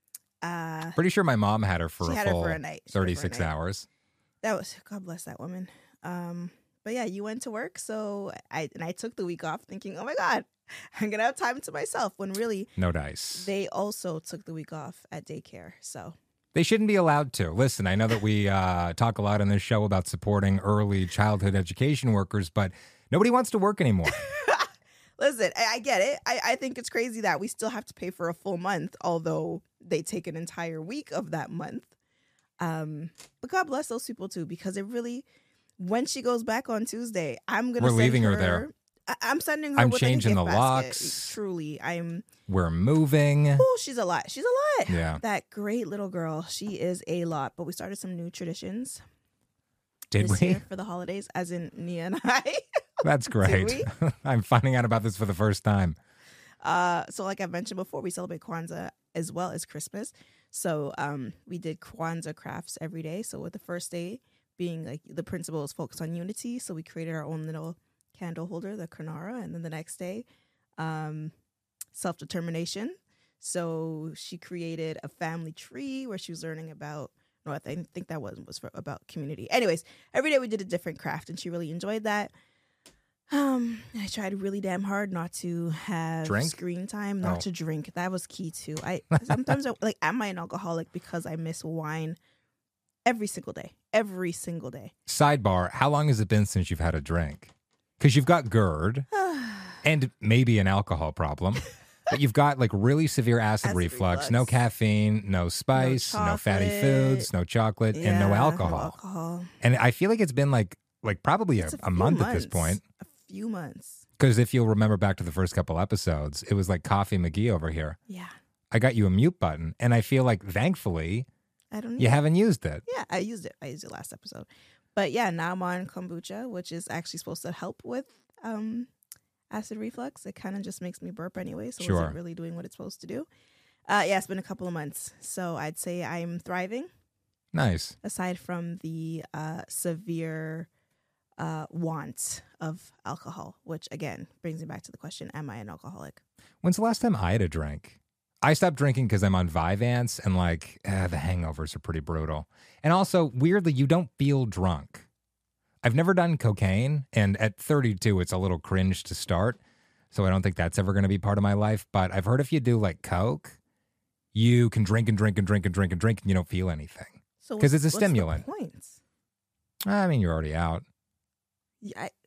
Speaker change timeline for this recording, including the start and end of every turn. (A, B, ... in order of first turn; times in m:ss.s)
0:00.4-0:01.0 A
0:01.0-0:03.9 B
0:02.0-0:03.5 A
0:04.4-0:12.7 A
0:12.8-0:13.5 B
0:13.4-0:16.2 A
0:16.6-0:24.2 B
0:24.1-0:31.9 A
0:32.6-0:35.3 A
0:35.8-0:42.3 A
0:37.8-0:38.6 B
0:39.8-0:41.4 B
0:42.5-0:43.7 B
0:43.6-0:49.0 A
0:44.9-0:45.2 B
0:50.1-0:50.6 B
0:50.2-0:53.9 A
0:53.0-0:56.0 B
0:56.6-1:10.2 A
1:10.8-1:11.3 A
1:11.9-1:22.3 A
1:23.3-1:32.2 A
1:26.2-1:26.6 B
1:33.0-1:34.9 A
1:35.1-1:39.1 B
1:39.2-1:39.8 A
1:39.8-1:49.0 B
1:43.6-1:44.6 A
1:45.8-1:47.3 A
1:47.9-1:49.5 A
1:49.6-1:52.8 B
1:51.6-1:54.0 A
1:54.2-1:58.0 B
1:58.1-1:58.3 A
1:58.7-2:01.3 B
2:01.7-2:02.2 A
2:02.0-2:02.8 B
2:02.9-2:08.9 A
2:09.5-2:13.3 A
2:11.8-2:12.2 B
2:13.9-2:16.9 A
2:17.5-2:18.0 B
2:18.0-2:20.7 A
2:21.4-2:26.2 A
2:26.6-2:35.1 B
2:35.8-2:39.6 B
2:40.1-2:43.6 B
2:44.3-2:48.4 B
2:47.4-2:49.0 A
2:49.9-2:50.8 B
2:51.8-2:52.1 A